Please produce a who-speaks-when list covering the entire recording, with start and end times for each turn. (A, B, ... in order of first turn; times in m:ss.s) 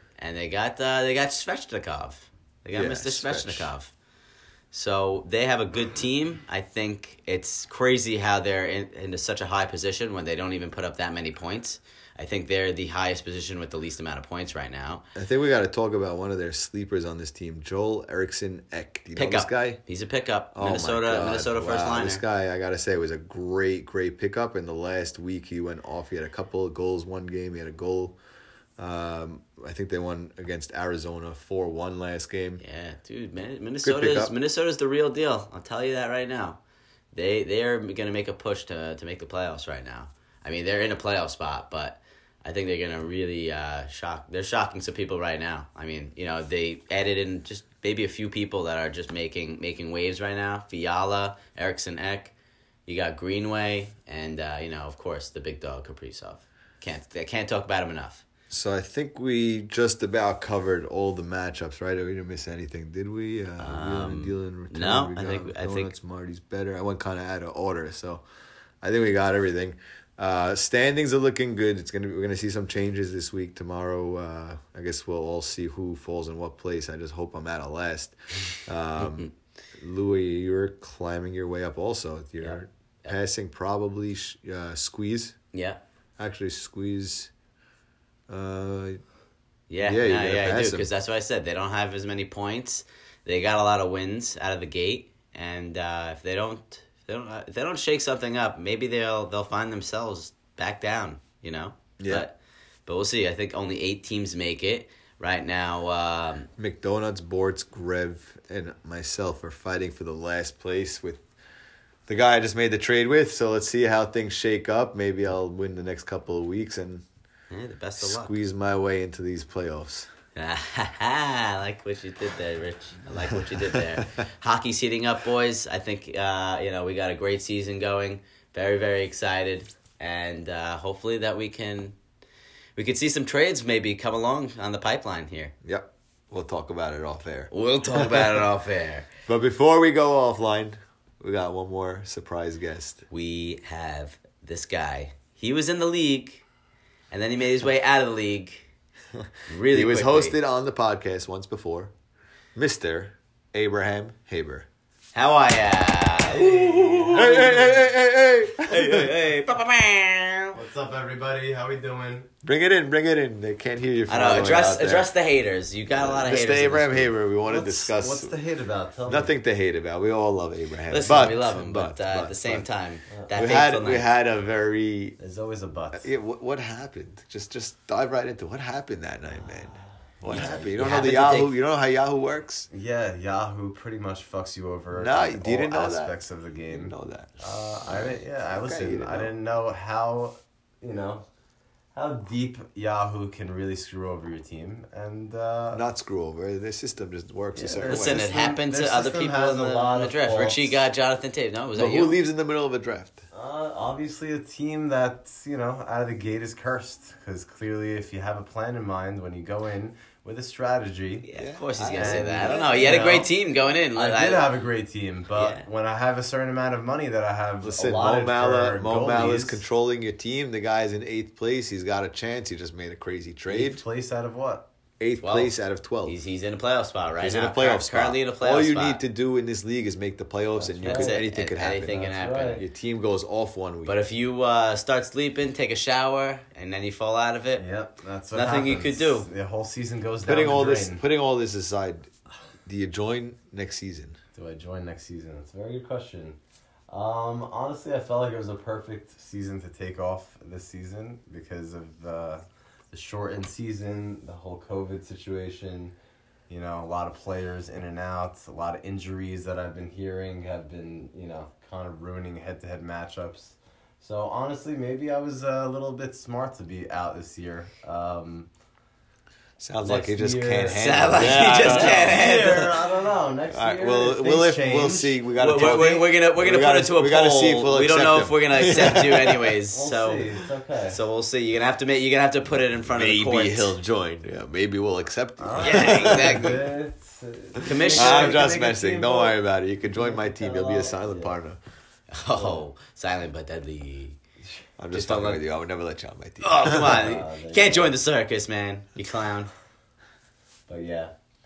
0:00.2-0:03.9 A
0:02.7-0:03.7 B
0:04.7-0:15.0 A
0:15.1-0:19.8 B
0:19.2-0:22.2 A
0:20.5-0:28.2 B
0:28.8-0:32.6 B
0:32.6-0:36.6 A
0:33.8-0:34.3 B
0:37.1-0:52.3 A
0:52.8-0:58.2 A
0:58.5-1:08.2 B
1:03.6-1:05.9 A
1:08.8-1:25.4 B
1:22.4-1:23.1 A
1:25.5-1:25.8 A
1:26.2-1:27.3 B
1:28.3-1:29.0 B
1:29.7-1:46.5 A
1:29.8-1:30.9 B
1:42.0-1:42.3 B
1:46.6-1:51.2 B
1:52.1-1:57.0 B
1:57.5-1:58.3 A
1:58.0-2:00.1 B
2:00.4-2:12.0 A
2:03.7-2:04.0 B
2:12.8-2:15.5 A
2:15.6-2:18.3 B
2:17.5-2:19.1 A
2:19.2-2:23.0 B
2:23.1-2:26.4 A
2:27.1-2:28.6 A
2:29.2-2:31.9 B
2:29.5-2:30.4 A
2:32.5-2:34.7 B
2:35.1-2:37.8 A
2:36.3-2:37.7 C
2:37.1-2:39.1 B
2:38.6-2:40.6 A
2:40.5-2:42.3 C
2:42.4-2:45.1 B
2:44.1-2:47.2 A
2:45.9-2:48.3 B
2:47.4-2:49.3 C
2:49.1-2:52.6 B
2:50.9-2:54.0 A
2:53.3-2:55.2 B
2:55.2-2:56.1 C
2:55.9-3:02.7 B
2:59.4-3:00.6 C
3:00.3-3:01.5 A
3:02.7-3:11.2 C
3:04.9-3:07.3 B
3:07.8-3:09.3 B
3:11.9-3:15.8 C
3:15.7-3:18.2 B
3:17.5-3:20.8 C
3:17.9-3:22.1 A
3:21.8-3:23.2 B
3:23.3-3:31.3 C
3:31.2-3:34.5 A
3:31.4-3:33.0 B
3:31.9-3:39.6 C
3:35.3-3:35.7 A
3:37.6-3:43.8 B
3:43.5-3:44.6 C
3:45.0-3:46.2 B
3:45.2-3:49.0 A
3:47.2-3:52.0 B
3:50.5-3:51.2 C
3:50.9-3:52.6 A
3:51.8-3:52.6 C
3:52.5-3:54.0 B
3:53.8-3:57.6 A
3:57.6-4:01.0 C
3:58.3-3:59.3 A
4:00.2-4:02.1 B
4:02.6-4:04.2 B
4:04.3-4:06.4 C
4:06.9-4:16.0 C
4:16.5-4:28.5 C
4:29.6-4:32.7 B
4:29.8-4:36.0 C
4:30.7-4:32.7 A
4:33.5-4:39.5 B
4:35.4-4:40.3 A
4:39.7-4:41.0 C
4:40.9-4:43.7 A
4:42.9-4:46.6 B
4:45.4-4:49.4 C
4:45.6-4:46.6 A
4:47.6-4:48.4 A
4:47.9-4:51.6 B
4:49.9-4:51.3 C
4:52.1-4:54.2 A
4:52.3-4:52.6 C
4:54.8-4:57.1 B
4:54.9-4:55.4 A
4:56.4-4:59.5 A
4:56.7-4:58.0 C
5:00.7-5:01.1 C